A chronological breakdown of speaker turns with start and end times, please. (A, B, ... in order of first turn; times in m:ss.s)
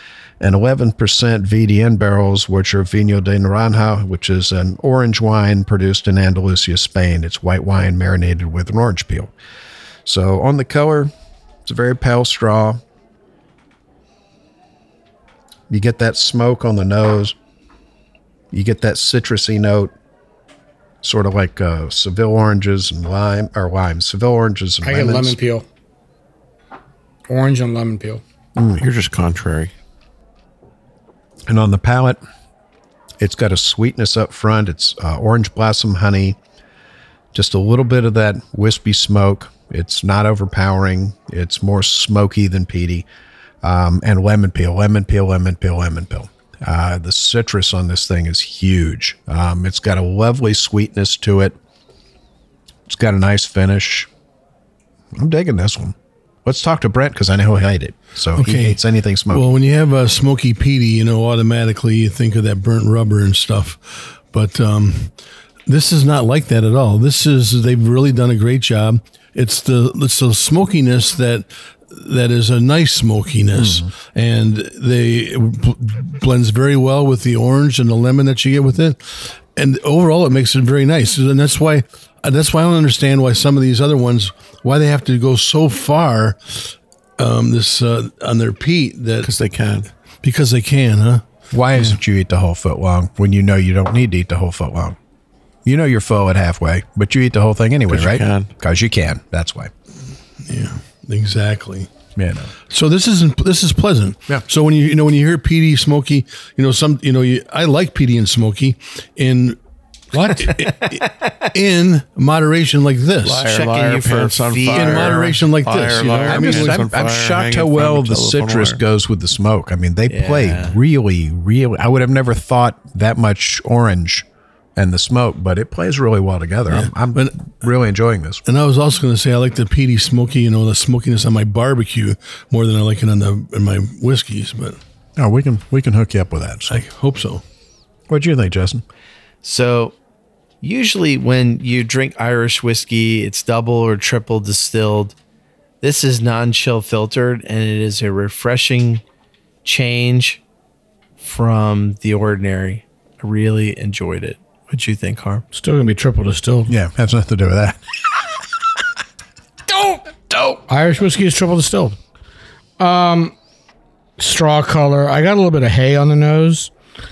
0:00.4-0:09.3 A
0:10.0-0:11.1 A
0:11.6-0:12.8 A
0:15.7-0:17.3 A
0:18.5-0:19.9 A
0:21.0-0:25.4 A
0:24.8-0:25.6 B
0:27.3-0:28.2 B
0:28.6-0:28.8 A
0:28.8-0:29.7 C
0:31.5-0:32.2 A
0:33.2-0:36.4 A
0:37.3-0:43.1 A
0:43.6-0:51.6 A
0:52.9-0:54.1 A
0:55.1-0:59.4 A
0:58.4-0:58.8 D
0:59.3-1:05.1 D
1:05.7-1:29.3 D
1:13.6-1:13.9 A
1:29.2-1:29.9 C
1:30.2-1:31.2 D
1:31.5-1:35.0 A
1:35.6-1:39.7 A
1:37.9-1:38.5 C
1:40.4-1:41.9 D
1:42.2-1:42.5 A
1:42.7-1:49.6 D
1:50.1-1:53.5 D
1:50.4-1:51.5 E
1:53.2-1:58.8 C
1:53.3-1:55.1 E
1:54.7-1:56.8 D
1:56.3-2:08.4 A
2:00.1-2:00.8 E
2:06.7-2:07.5 D
2:08.4-2:14.8 D
2:15.2-2:16.8 A
2:16.7-2:17.4 D
2:18.1-2:18.8 A
2:19.4-2:19.9 E
2:20.6-2:25.1 E
2:25.8-2:29.0 E
2:29.6-2:30.4 E
2:31.2-2:35.4 E
2:35.5-2:36.7 B
2:36.7-2:37.8 A
2:40.3-2:40.6 A
2:40.7-2:42.0 B
2:42.8-2:43.3 B
2:44.2-2:46.7 B